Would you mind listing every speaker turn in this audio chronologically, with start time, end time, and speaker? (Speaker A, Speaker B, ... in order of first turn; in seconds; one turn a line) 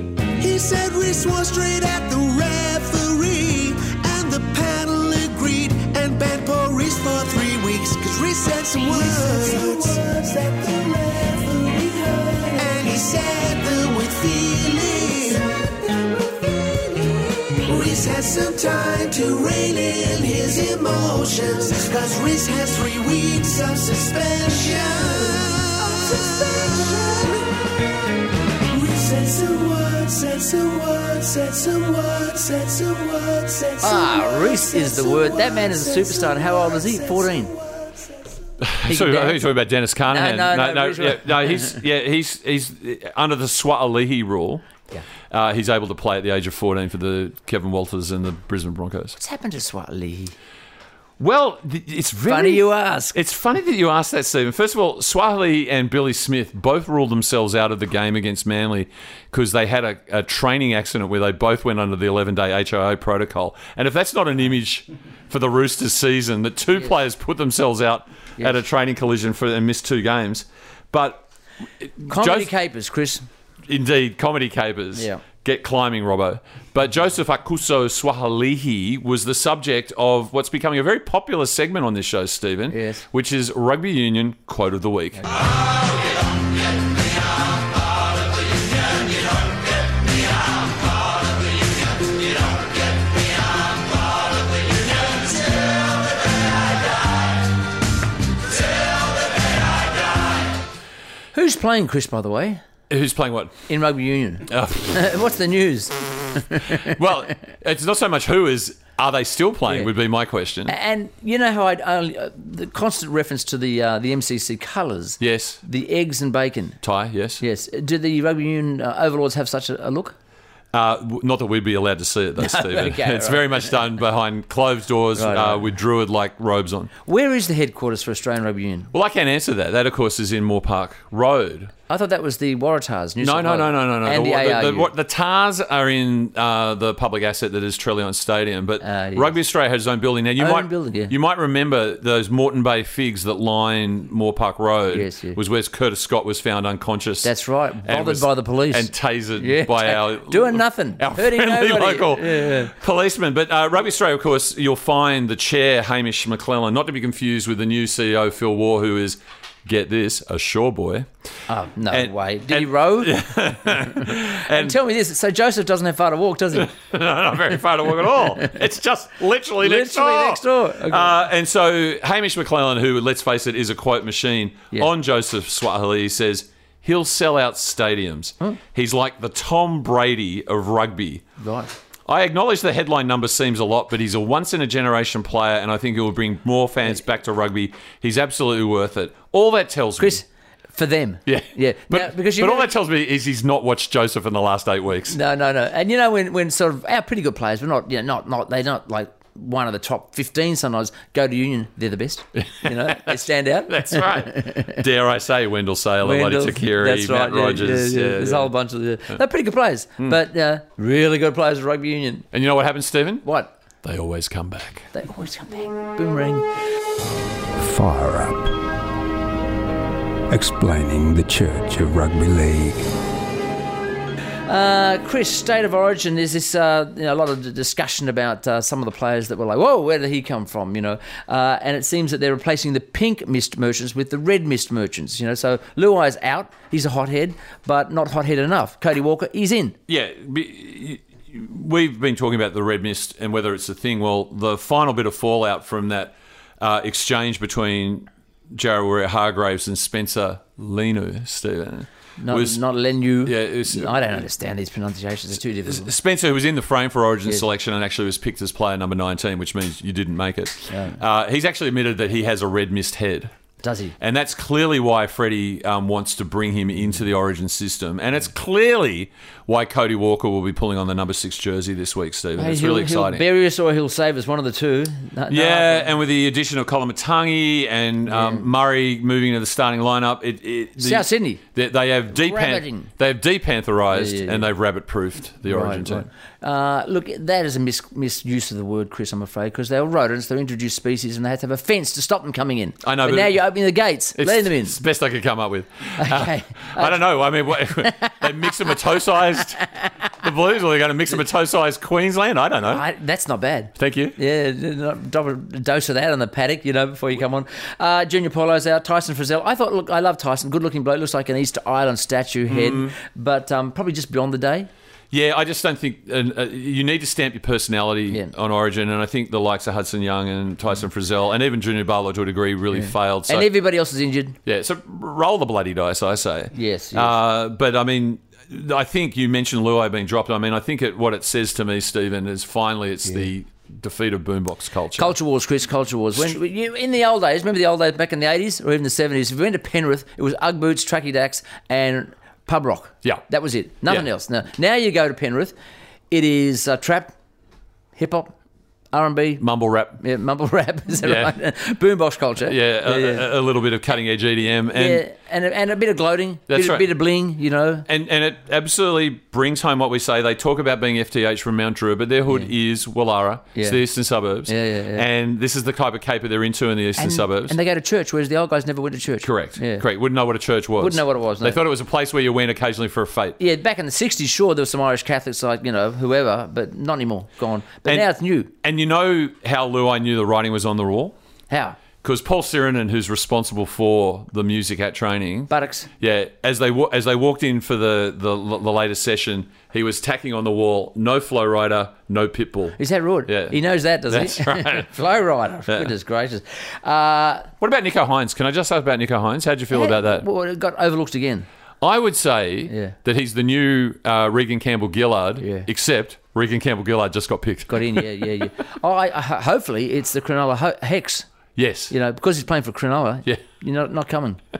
Speaker A: 0.4-27.8
Speaker A: 28.7-38.3
Speaker B: 33.8-37.5
Speaker C: 38.6-44.6
Speaker B: 38.9-39.4
Speaker B: 40.1-41.8
Speaker C: 45.3-49.2
Speaker B: 49.2-50.3
Speaker C: 51.2-71.2
Speaker B: 52.3-53.1
Speaker C: 71.9-72.5
Speaker B: 72.1-73.2
Speaker C: 73.7-85.2
Speaker B: 75.0-75.2
Speaker B: 82.7-83.0
Speaker B: 101.3-102.6
Speaker C: 102.9-103.6
Speaker B: 103.7-107.0
Speaker C: 104.5-105.0
Speaker C: 106.8-110.7
Speaker B: 110.7-116.8
Speaker C: 115.2-115.6
Speaker C: 116.8-117.4
Speaker B: 117.4-120.1
Speaker C: 120.7-126.9
Speaker B: 122.4-123.7
Speaker B: 125.2-125.7
Speaker B: 127.0-128.9
Speaker C: 128.9-131.7
Speaker B: 131.9-134.9
Speaker C: 133.2-147.3
Speaker B: 138.8-139.4
Speaker B: 140.4-141.1
Speaker B: 144.9-145.4
Speaker B: 147.2-152.7
Speaker C: 147.8-161.1
Speaker B: 161.5-163.2
Speaker C: 161.9-164.8
Speaker B: 163.7-166.7
Speaker C: 166.5-181.2
Speaker B: 169.6-171.1
Speaker B: 181.4-181.7
Speaker C: 182.1-190.2
Speaker B: 190.0-192.7
Speaker C: 191.2-195.2
Speaker B: 195.1-204.8
Speaker C: 202.3-208.5
Speaker B: 206.0-212.2
Speaker C: 212.3-213.2
Speaker B: 213.2-213.5
Speaker C: 213.8-214.9
Speaker B: 214.9-216.4
Speaker D: 217.6-218.5
Speaker D: 220.3-222.9
Speaker B: 224.5-239.8
Speaker C: 239.9-252.6
Speaker B: 252.2-255.9
Speaker C: 253.2-254.2
Speaker C: 255.7-263.3
Speaker B: 260.7-261.0
Speaker B: 263.6-263.9
Speaker C: 264.0-273.2
Speaker B: 272.4-275.9
Speaker C: 275.3-286.1
Speaker B: 278.1-278.5
Speaker B: 280.8-281.4
Speaker B: 282.1-282.9
Speaker B: 283.9-284.5
Speaker B: 285.4-294.7
Speaker C: 292.8-293.4
Speaker C: 294.2-299.6
Speaker B: 296.0-298.5
Speaker C: 300.2-302.8
Speaker B: 302.7-314.7
Speaker C: 303.8-304.1
Speaker C: 312.5-312.9
Speaker C: 315.1-323.5
Speaker B: 322.7-324.4
Speaker C: 324.4-335.1
Speaker B: 326.5-327.1
Speaker B: 335.0-345.6
Speaker B: 346.1-347.1
Speaker B: 347.9-348.3
Speaker B: 348.9-349.4
Speaker C: 349.4-350.0
Speaker B: 350.0-353.2
Speaker C: 351.0-351.3
Speaker C: 352.5-355.0
Speaker B: 354.7-357.9
Speaker C: 356.5-356.9
Speaker C: 357.9-367.6
Speaker B: 364.5-365.0
Speaker B: 367.0-369.8
Speaker C: 369.2-373.4
Speaker B: 370.8-371.6
Speaker B: 373.4-378.5
Speaker C: 378.6-381.1
Speaker B: 381.5-381.8
Speaker C: 382.0-393.6
Speaker B: 385.5-385.9
Speaker B: 392.8-397.5
Speaker C: 394.1-394.9
Speaker C: 397.6-400.2
Speaker B: 399.7-401.5
Speaker C: 401.8-408.1
Speaker B: 402.7-402.9
Speaker B: 405.4-405.7
Speaker B: 407.7-411.3
Speaker C: 411.6-411.9
Speaker B: 411.9-414.4